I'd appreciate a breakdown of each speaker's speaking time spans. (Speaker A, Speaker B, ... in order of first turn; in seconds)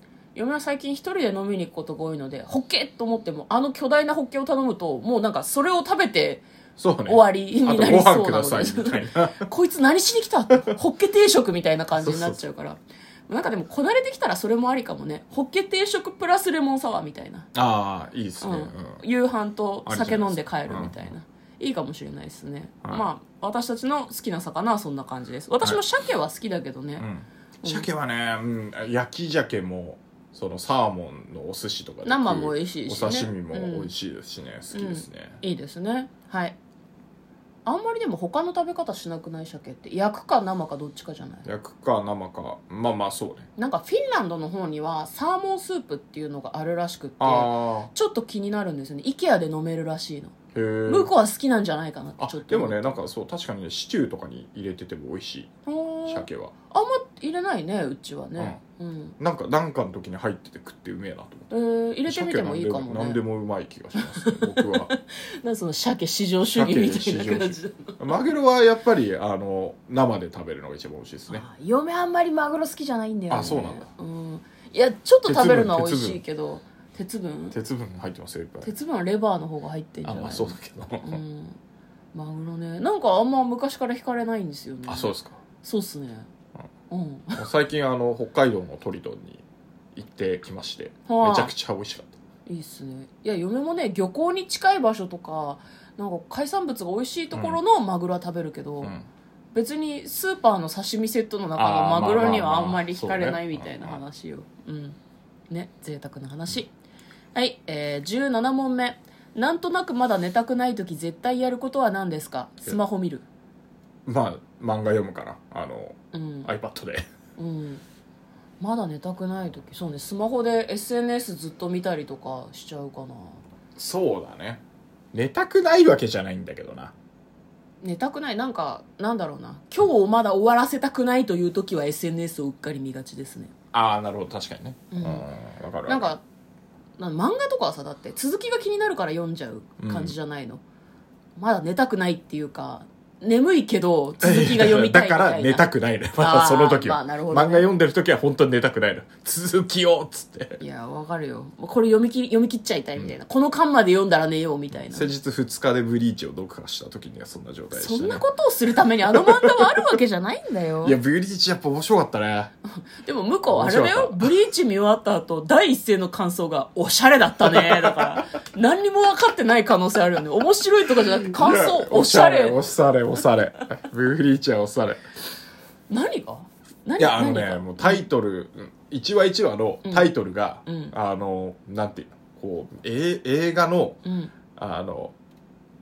Speaker A: 0.3-6.4, 7.1-17.5, 18.4-27.1, 27.6-27.9, 32.0-33.9, 34.7-36.5, 37.6-41.5, 43.6-50.4, 50.9-52.9, 55.6-59.1, 61.5-63.2, 64.0-68.1, 71.3-77.5, 78.6-81.6, 82.1-86.3, 86.9-87.4, 91.1-91.5, 92.5-98.9, 99.5-105.0, 105.5-106.7, 107.3-113.2, 116.1-116.5, 117.4-117.8, 118.6-123.4, 127.8-133.5, 134.9-135.2, 135.9-136.2, 137.0-140.6, 141.4-147.7, 150.6-155.1, 157.7-161.0, 162.7-172.6, 175.9-178.0, 179.8-180.1, 180.7-180.9, 184.0-184.3
Speaker B: 6.8-9.5, 11.9-12.4, 17.5-19.0, 19.9-21.1, 27.0-35.4, 41.4-43.5, 47.2-47.9, 50.5-51.1, 52.2-55.5, 56.0-56.5, 59.2-61.5, 62.1-64.9, 66.5-71.4, 73.3-73.8, 75.2-76.2, 77.5-78.7, 80.0-81.2, 84.8-85.4, 87.4-89.4, 89.9-92.1, 97.3-97.6, 101.5-104.0, 114.0-117.0, 123.8-124.6, 125.1-126.9, 133.7-136.1, 139.8-140.1, 144.2-150.6, 154.8-158.2, 159.1-160.0, 160.8-162.5, 163.5-164.3, 167.4-168.3, 171.2-175.0, 177.0-184.0, 184.6-185.1